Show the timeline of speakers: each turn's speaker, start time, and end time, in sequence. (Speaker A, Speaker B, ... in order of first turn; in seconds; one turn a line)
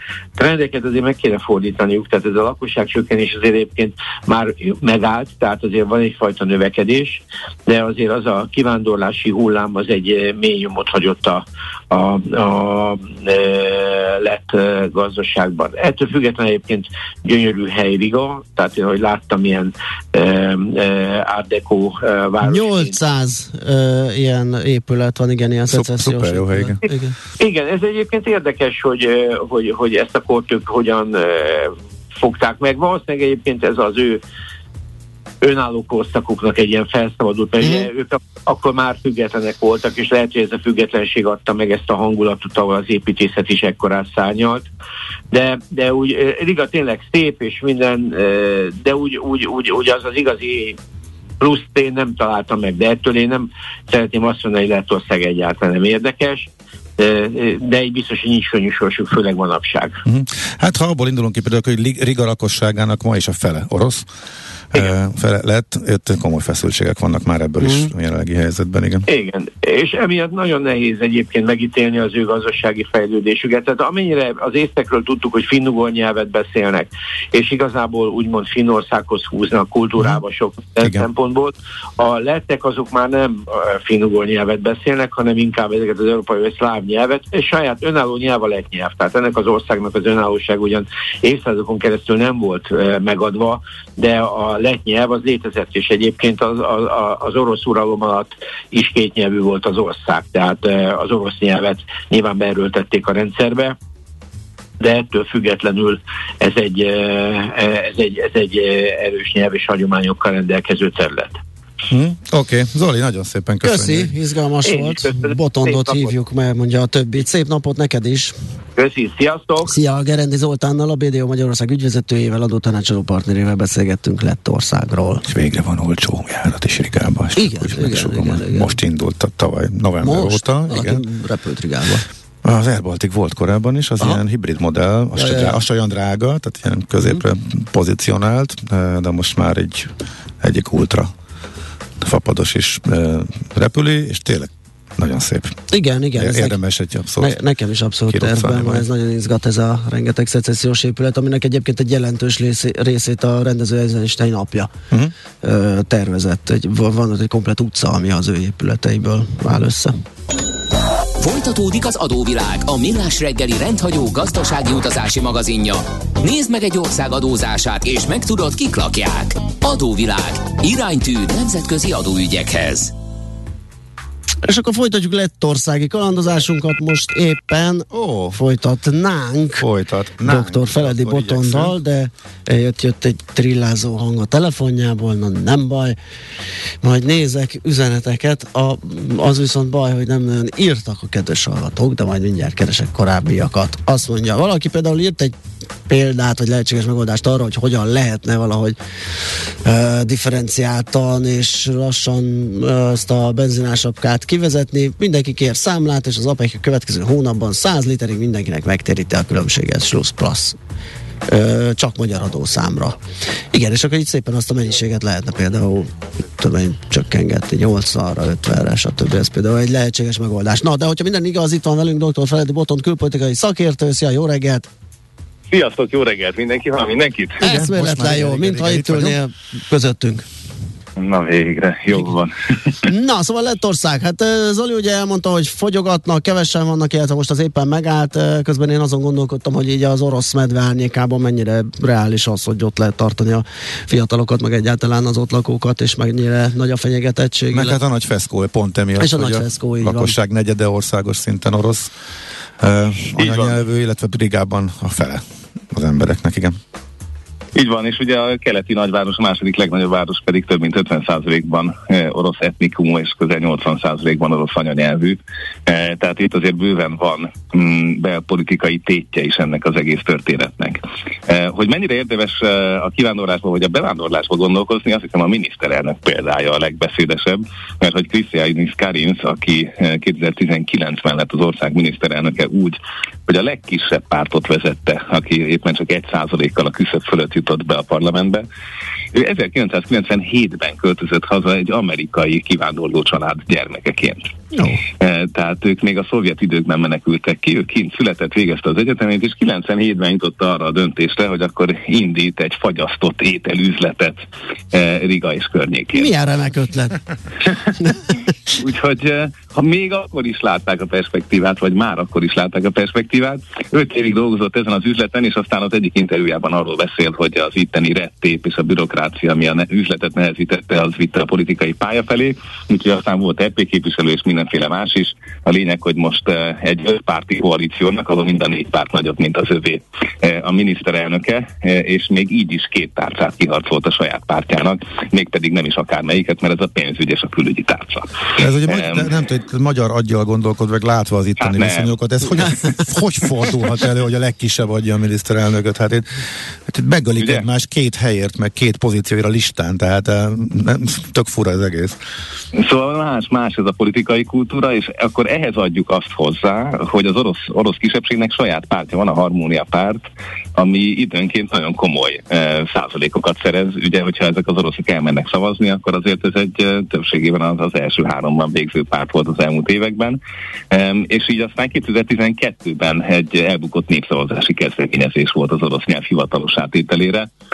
Speaker A: 0.3-23.0
Speaker B: 22.4-27.1
Speaker C: 25.7-26.8
Speaker A: 27.4-34.2
Speaker A: 35.4-44.7
Speaker A: 45.3-50.8
Speaker A: 51.4-60.0
Speaker C: 60.0-64.0
Speaker C: 64.7-69.0
Speaker A: 69.1-103.8
Speaker C: 80.8-81.1
Speaker A: 104.8-111.4
Speaker C: 111.9-114.1
Speaker B: 113.6-118.3
Speaker A: 114.6-116.1
Speaker A: 118.8-119.7
Speaker B: 119.7-125.2
Speaker C: 125.2-131.0
Speaker B: 127.4-128.7
Speaker B: 130.0-132.0
Speaker C: 132.4-141.1
Speaker B: 135.2-135.6
Speaker C: 142.0-145.6
Speaker B: 145.7-146.6
Speaker C: 146.2-147.3
Speaker B: 147.2-154.7
Speaker C: 148.1-148.8
Speaker B: 155.4-159.9
Speaker D: 161.2-172.9
Speaker B: 174.4-179.6
Speaker C: 177.9-178.4
Speaker C: 179.6-181.8
Speaker B: 180.2-185.9
Speaker B: 186.8-195.3
Speaker B: 195.9-198.8
Speaker B: 199.6-210.6
Speaker B: 211.3-212.9
Speaker B: 213.5-224.7
Speaker E: 225.5-227.4
Speaker C: 227.4-229.2
Speaker B: 227.4-230.2
Speaker E: 231.0-232.8
Speaker B: 232.8-247.8
Speaker C: 247.5-251.9
Speaker B: 249.0-250.1
Speaker C: 252.6-256.6
Speaker E: 253.2-253.6
Speaker E: 257.5-288.4
Speaker E: 289.1-294.3
Speaker B: 294.5-294.8
Speaker E: 295.0-306.1
Speaker B: 305.9-307.0
Speaker E: 307.4-307.7
Speaker E: 308.5-339.1
Speaker C: 338.4-346.1
Speaker E: 341.4-341.9
Speaker C: 346.7-352.0
Speaker E: 347.2-347.4
Speaker E: 352.5-360.0
Speaker E: 360.6-370.2
Speaker E: 370.7-377.3